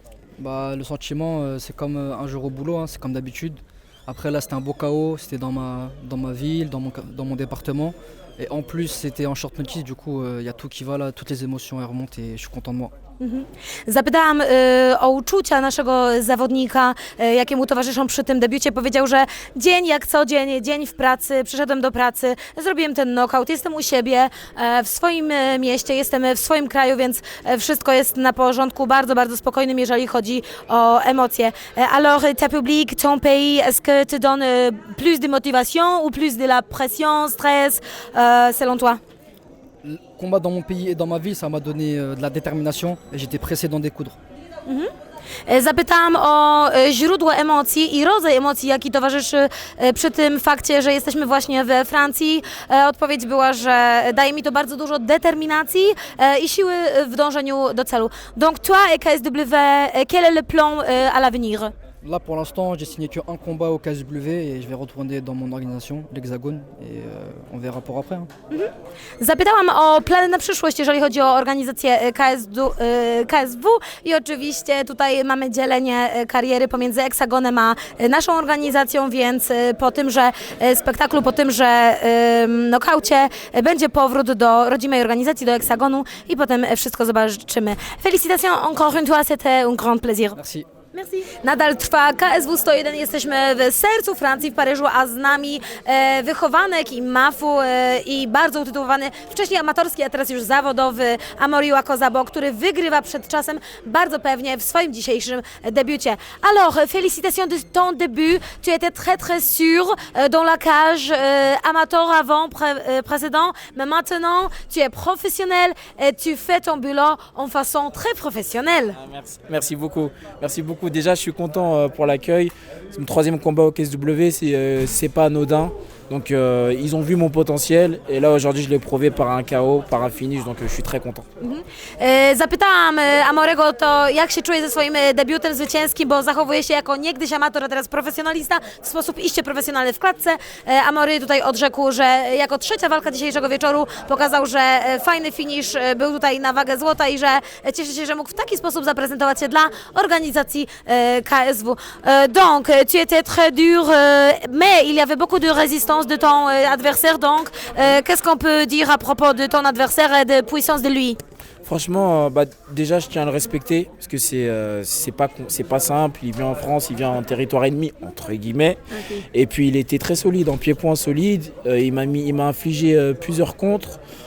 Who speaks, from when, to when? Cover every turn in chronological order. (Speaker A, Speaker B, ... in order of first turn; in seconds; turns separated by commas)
Speaker A: 0.4-12.9, Speaker B: 13.2-39.0, Speaker A: 39.8-44.2, Speaker B: 45.5-61.7, Speaker A: 62.0-68.3, Speaker B: 68.5-90.4, Speaker A: 90.3-90.7, Speaker B: 90.9-119.0, Speaker C: 119.0-131.2, Speaker B: 131.4-161.2, Speaker C: 161.7-168.8, Speaker B: 169.0-169.2, Speaker C: 169.3-174.0